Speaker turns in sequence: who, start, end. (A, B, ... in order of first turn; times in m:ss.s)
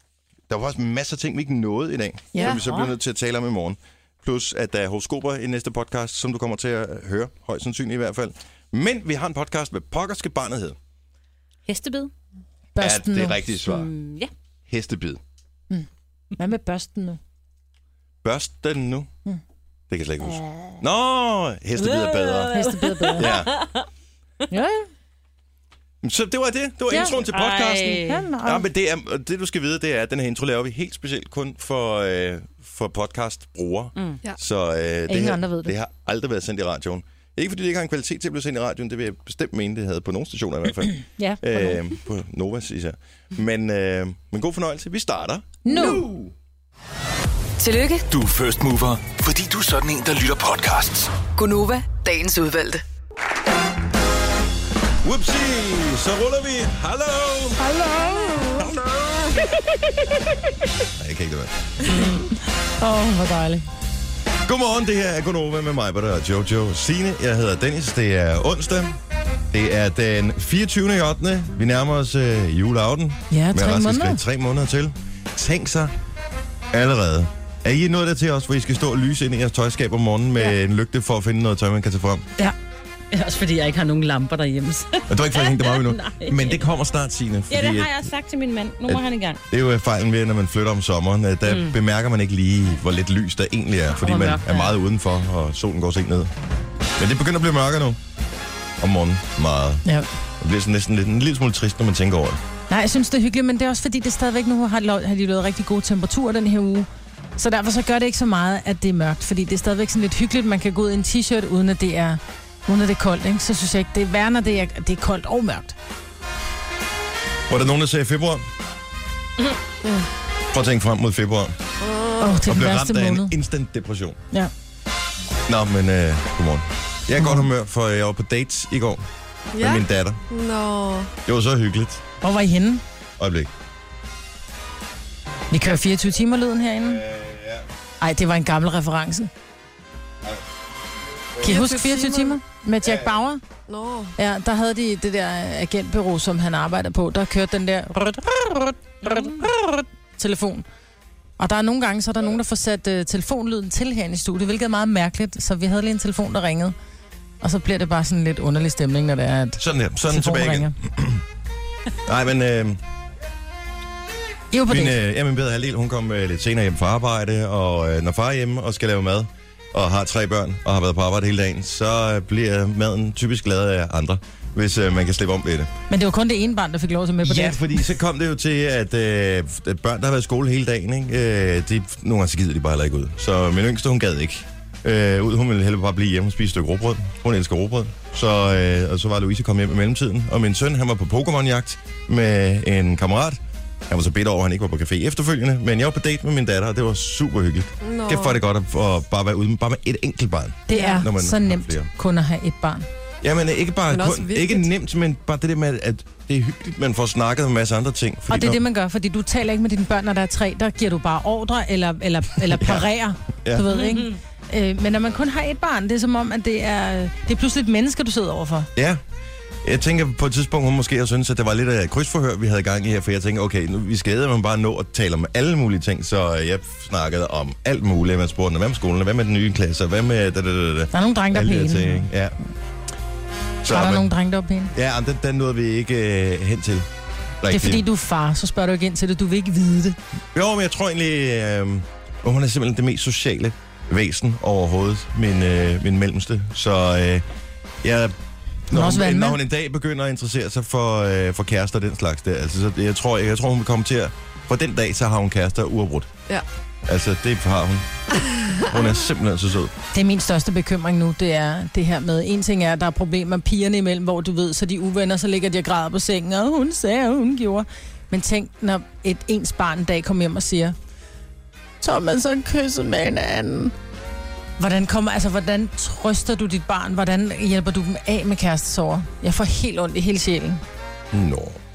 0:00.5-0:10.8 A
0:02.3-0:02.9 B
0:11.7-0:12.1 C
0:12.7-0:13.4 B
0:12.8-0:13.9 A
0:13.6-0:14.3 C
0:14.7-0:15.2 A
0:15.7-0:17.2 B
0:18.2-0:19.1 A
0:19.9-0:22.6 A
0:21.8-0:23.9 C
0:22.5-0:23.3 B
0:23.2-0:23.6 A
0:24.5-0:24.9 B
0:26.0-0:46.3 A
0:26.9-0:28.2 C
0:28.0-0:28.6 B
0:35.1-0:35.7 B
0:41.0-0:41.8 B
0:45.6-0:46.0 B
0:47.6-0:48.0 D
0:48.1-0:51.1 E
0:51.4-0:52.8 D
0:55.0-0:57.6 A
0:57.6-0:58.7 B
1:01.0-1:01.8 A
1:01.9-1:03.6 B
1:04.4-1:09.0 A
1:09.5-1:15.9 A
1:13.3-1:14.2 B
1:16.7-1:22.2 A
1:23.1-1:26.6 C
1:25.1-1:27.9 A
1:27.5-1:29.4 C
1:28.9-1:36.3 A
1:31.4-1:31.8 C
1:34.0-1:34.7 C
1:37.0-1:38.0 A
1:38.8-1:39.8 A
1:40.4-1:42.4 A
1:42.7-1:55.8 B
1:57.5-1:58.4 A
2:00.5-2:01.5 A
2:01.8-2:02.4 F
2:02.2-2:03.3 B
2:02.4-2:04.2 A
2:05.5-2:09.0 A
2:07.2-2:07.4 B
2:09.5-2:11.1 F
2:09.6-2:10.2 A
2:11.2-2:12.0 A
2:12.2-2:12.8 B
2:13.2-2:13.5 A
2:15.5-2:17.0 B
2:16.8-2:17.6 A
2:18.0-2:19.3 B
2:21.4-2:22.4 F
2:21.4-2:23.4 B
2:22.8-2:23.2 A
2:23.7-2:24.1 F
2:24.2-2:30.7 B
2:31.4-2:36.7 B
2:37.4-2:40.7 B
2:39.6-2:41.2 A
2:42.0-2:42.8 A
2:44.5-2:45.0 B
2:44.7-2:55.7 A
2:55.9-2:57.6 B
2:57.2-3:21.9 A
3:17.8-3:18.4 F
3:20.7-3:22.8 B
3:23.2-3:28.6 A
3:23.9-3:24.7 F
3:28.3-3:38.7 B
3:32.5-3:33.6 A
3:33.8-3:34.0 C
3:38.8-3:39.0 A
3:39.6-3:52.3 A
3:50.9-3:52.1 B
3:53.6-3:54.1 A
3:53.7-3:54.7 B
3:54.7-3:56.9 A
3:57.4-3:57.8 A
3:57.5-4:00.0 B
4:00.3-4:07.2 A
4:07.8-4:08.2 A
4:08.7-4:16.1 A
4:08.7-4:09.4 B
4:16.9-4:17.9 A
4:18.2-4:18.7 F
4:18.6-4:19.7 A
4:19.9-4:30.7 B
4:31.8-4:33.7 B
4:34.6-4:40.6 B
4:41.1-4:41.6 A